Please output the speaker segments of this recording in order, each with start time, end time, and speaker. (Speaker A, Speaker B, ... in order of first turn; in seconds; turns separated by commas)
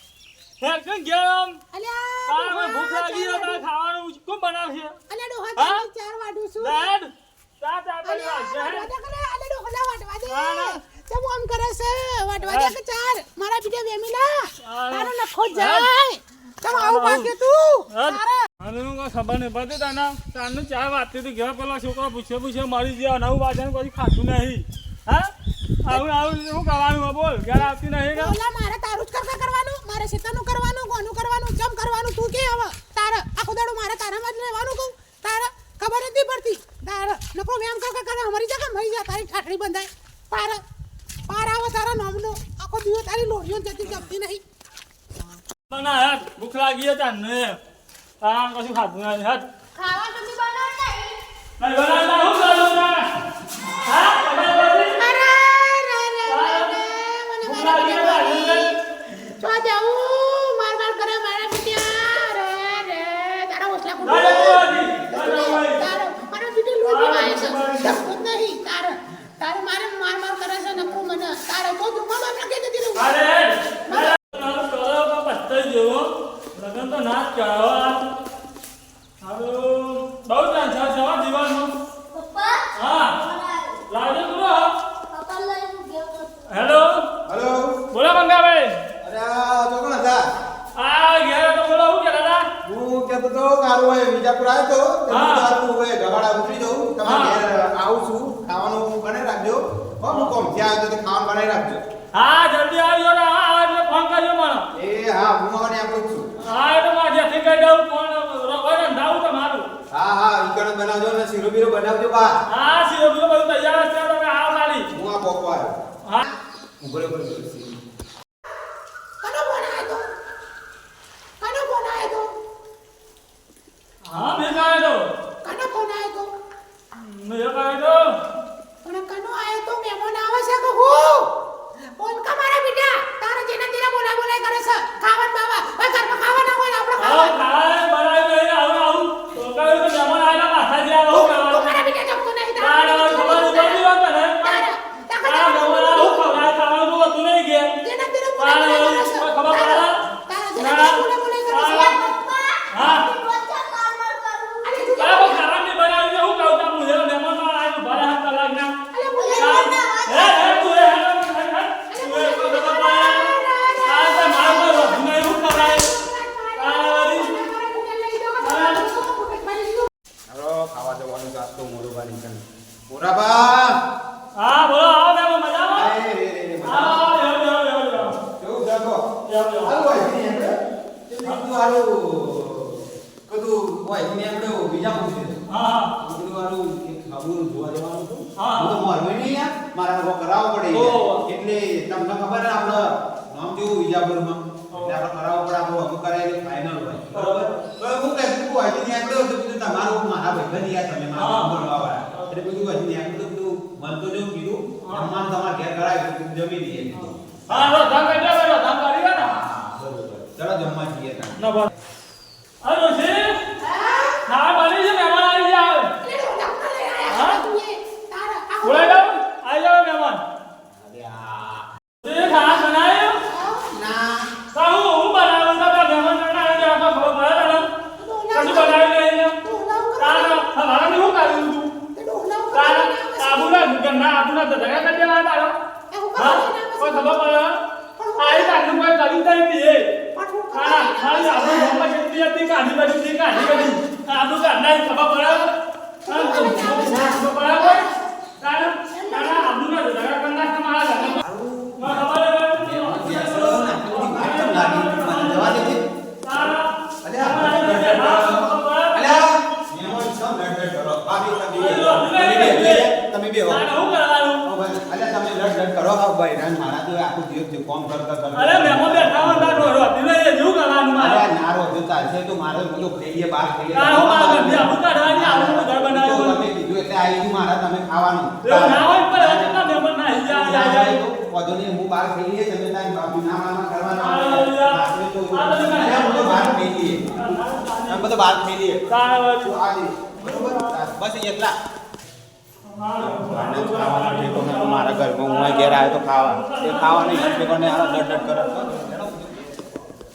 Speaker A: 0.6-1.6, Speaker B: 1.7-3.6, Speaker A: 2.3-5.0, Speaker B: 5.1-6.9, Speaker A: 5.6-5.8, Speaker A: 6.6-8.9, Speaker B: 8.0-18.5, Speaker A: 10.3-10.8, Speaker A: 12.4-12.8, Speaker A: 14.6-15.9, Speaker A: 16.7-17.3, Speaker A: 17.9-25.3, Speaker A: 25.8-28.3, Speaker B: 27.6-40.6, Speaker B: 41.3-44.4, Speaker A: 45.7-47.6, Speaker A: 48.2-49.5, Speaker C: 49.7-51.2, Speaker A: 51.6-53.1, Speaker A: 53.8-55.0, Speaker B: 55.0-73.1, Speaker A: 56.3-56.7, Speaker A: 57.4-58.7, Speaker A: 64.0-65.8, Speaker A: 66.8-68.0, Speaker A: 73.0-78.0, Speaker B: 73.9-74.2, Speaker A: 79.2-81.7, Speaker C: 82.1-83.8, Speaker A: 82.8-83.1, Speaker A: 83.9-84.7, Speaker C: 85.1-86.6, Speaker A: 86.5-87.0, Speaker D: 87.3-87.8, Speaker A: 87.9-88.7, Speaker D: 89.0-90.2, Speaker A: 90.8-92.4, Speaker D: 92.6-101.8, Speaker A: 95.1-95.5, Speaker A: 97.0-97.4, Speaker A: 102.1-104.7, Speaker D: 104.8-106.2, Speaker A: 106.5-109.6, Speaker D: 109.9-112.4, Speaker A: 112.5-114.9, Speaker D: 114.9-115.7, Speaker D: 116.8-117.7, Speaker B: 119.2-120.0, Speaker B: 121.4-122.2, Speaker A: 124.1-125.1, Speaker B: 125.4-126.3, Speaker A: 126.9-128.1, Speaker B: 128.8-131.3, Speaker B: 132.0-137.3, Speaker A: 137.0-141.8, Speaker B: 141.1-143.8, Speaker A: 142.6-144.6, Speaker B: 144.4-146.3, Speaker A: 145.2-147.7, Speaker B: 147.8-152.3, Speaker A: 148.4-149.9, Speaker A: 150.6-151.9, Speaker C: 151.7-154.8, Speaker A: 152.7-153.1, Speaker B: 154.6-155.4, Speaker A: 155.0-158.7, Speaker B: 158.9-160.0, Speaker C: 159.2-160.6, Speaker A: 159.4-163.3, Speaker B: 161.9-169.9, Speaker A: 163.8-165.9, Speaker A: 166.6-167.3, Speaker A: 168.4-168.8, Speaker D: 170.3-173.8, Speaker A: 174.3-175.9, Speaker D: 175.7-177.0, Speaker A: 176.7-178.2, Speaker D: 178.4-179.0, Speaker A: 179.3-179.8, Speaker D: 179.6-180.5, Speaker D: 181.1-185.4, Speaker A: 185.5-185.9, Speaker D: 186.0-208.2, Speaker A: 188.4-188.7, Speaker A: 190.7-191.2, Speaker A: 197.1-197.7, Speaker A: 201.2-202.3, Speaker A: 207.5-209.3, Speaker D: 209.2-211.4, Speaker A: 211.4-211.7, Speaker A: 212.6-213.4, Speaker B: 213.7-214.2, Speaker A: 214.2-215.9, Speaker B: 216.0-219.0, Speaker A: 217.1-217.4, Speaker A: 218.6-220.2, Speaker D: 220.7-221.7, Speaker A: 222.0-223.2, Speaker B: 223.2-223.8, Speaker D: 223.8-224.3, Speaker A: 224.5-227.7, Speaker B: 227.9-228.8, Speaker A: 228.3-229.3, Speaker B: 229.4-230.4, Speaker A: 230.0-231.7, Speaker B: 231.9-233.6, Speaker A: 232.5-235.5, Speaker B: 235.9-237.3, Speaker A: 236.2-237.6, Speaker B: 238.0-238.6, Speaker A: 238.2-239.8, Speaker B: 240.1-241.8, Speaker A: 240.5-245.5, Speaker B: 243.3-243.7, Speaker B: 246.1-248.0, Speaker A: 246.1-247.8, Speaker A: 248.4-251.2, Speaker B: 248.9-249.6, Speaker D: 251.2-255.8, Speaker A: 251.8-259.1, Speaker D: 257.0-263.6, Speaker A: 261.5-262.9, Speaker A: 263.5-264.4, Speaker D: 264.4-269.7, Speaker A: 268.3-271.2, Speaker D: 271.0-279.7, Speaker A: 273.7-276.4, Speaker A: 278.4-281.0, Speaker D: 280.2-287.3, Speaker A: 284.0-286.6, Speaker A: 287.1-288.0, Speaker D: 287.9-291.5, Speaker A: 288.9-289.5, Speaker A: 290.2-290.8, Speaker A: 292.6-298.9, Speaker D: 293.0-299.8